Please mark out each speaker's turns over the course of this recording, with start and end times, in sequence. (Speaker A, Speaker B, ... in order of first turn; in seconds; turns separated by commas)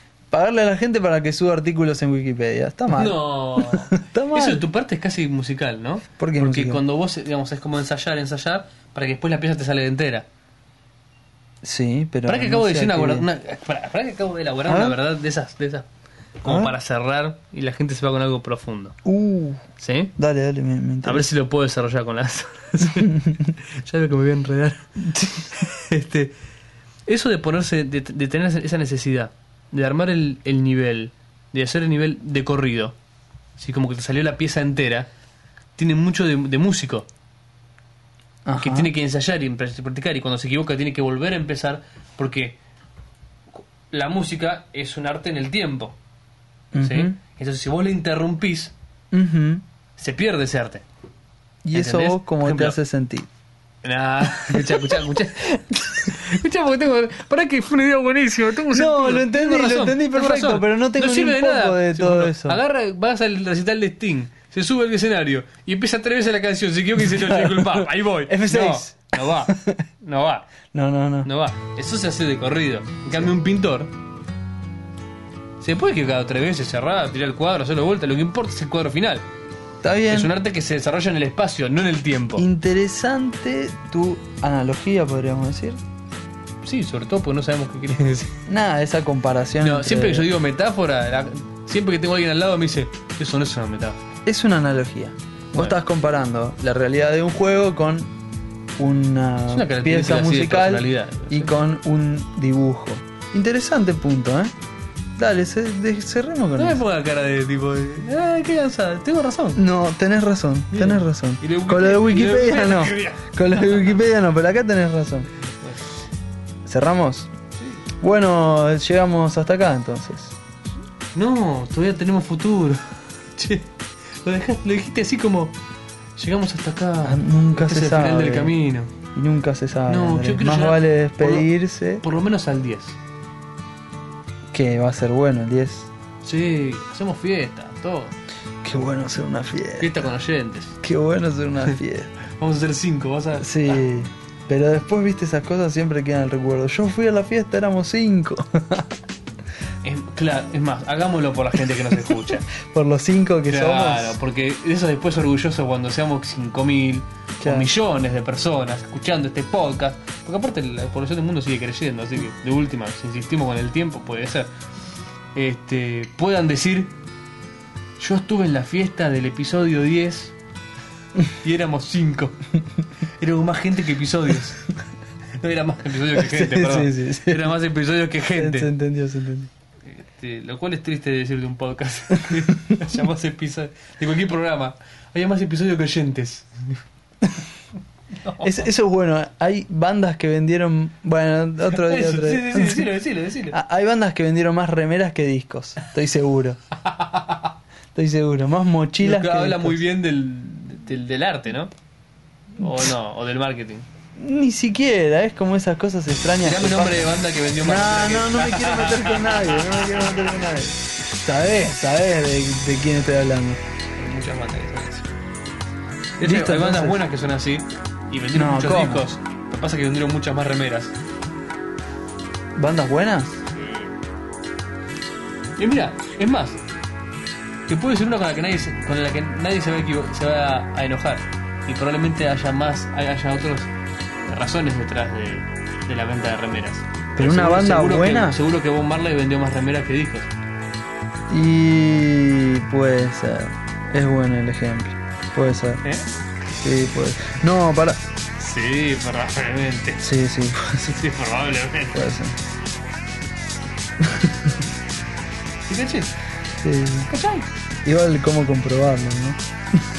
Speaker A: 0.3-4.6, Speaker B: 2.9-10.2, Speaker A: 6.2-6.8, Speaker A: 11.6-13.3, Speaker B: 12.3-15.9, Speaker A: 14.7-15.0, Speaker B: 16.4-19.0, Speaker A: 16.4-16.7, Speaker A: 19.0-19.6, Speaker B: 19.8-20.1, Speaker A: 20.2-21.3, Speaker B: 21.0-26.3, Speaker A: 23.0-23.4, Speaker A: 25.0-25.5, Speaker B: 27.1-32.9, Speaker B: 33.6-35.1, Speaker B: 35.8-37.1, Speaker A: 38.4-38.9, Speaker B: 38.6-42.6, Speaker B: 43.9-46.0, Speaker A: 46.7-47.2, Speaker B: 46.8-48.7, Speaker A: 49.1-49.6, Speaker B: 50.0-50.8, Speaker A: 51.6-53.3, Speaker B: 51.7-52.8, Speaker B: 53.8-70.5, Speaker A: 54.4-55.0, Speaker A: 58.7-62.6, Speaker A: 67.0-69.8, Speaker A: 70.7-71.3, Speaker B: 71.2-73.9, Speaker B: 75.6-79.2, Speaker A: 79.8-80.3, Speaker B: 80.1-82.5, Speaker A: 82.4-85.8, Speaker B: 86.6-88.4, Speaker A: 88.5-90.3, Speaker B: 89.6-94.0, Speaker A: 94.2-98.1, Speaker A: 98.8-104.5, Speaker B: 99.5-101.5, Speaker A: 105.2-106.8, Speaker B: 106.5-109.6, Speaker A: 109.5-115.3, Speaker B: 110.7-114.0, Speaker A: 116.7-117.3, Speaker B: 117.6-117.8, Speaker A: 118.0-120.3, Speaker B: 121.1-125.6, Speaker B: 126.2-128.9, Speaker A: 127.0-128.5, Speaker A: 129.1-132.0, Speaker B: 129.9-131.5, Speaker B: 132.0-133.0, Speaker A: 134.5-135.9, Speaker B: 136.2-138.1, Speaker A: 138.6-139.9, Speaker B: 139.8-140.8, Speaker A: 140.8-142.1, Speaker B: 142.2-143.8, Speaker A: 143.4-148.9, Speaker B: 149.8-152.5, Speaker A: 152.5-154.2, Speaker B: 153.5-164.5, Speaker A: 157.4-157.7, Speaker B: 165.3-166.9, Speaker B: 168.0-170.3, Speaker B: 171.3-172.4, Speaker B: 173.2-174.6, Speaker B: 175.4-178.7, Speaker A: 176.2-177.5, Speaker A: 178.3-179.5, Speaker B: 179.8-186.8, Speaker B: 188.1-188.6, Speaker A: 188.4-192.9, Speaker B: 191.7-193.6, Speaker A: 193.5-196.6, Speaker B: 196.9-197.4, Speaker A: 197.9-199.8, Speaker B: 199.0-201.7, Speaker B: 202.6-203.8, Speaker A: 204.2-213.6, Speaker B: 206.4-210.2, Speaker B: 213.9-215.1, Speaker B: 216.2-220.9, Speaker A: 216.2-217.0, Speaker A: 218.3-219.1, Speaker A: 222.6-223.4, Speaker B: 223.6-223.8, Speaker B: 225.6-226.6, Speaker B: 227.7-233.7, Speaker B: 234.2-240.3, Speaker A: 237.2-238.4, Speaker A: 241.3-245.8, Speaker A: 246.6-248.0, Speaker B: 248.4-250.1, Speaker A: 250.0-251.0, Speaker B: 250.8-252.0, Speaker A: 251.9-252.4, Speaker A: 254.0-254.6, Speaker B: 255.7-256.1, Speaker A: 256.6-257.1, Speaker B: 257.1-257.5, Speaker A: 257.8-259.8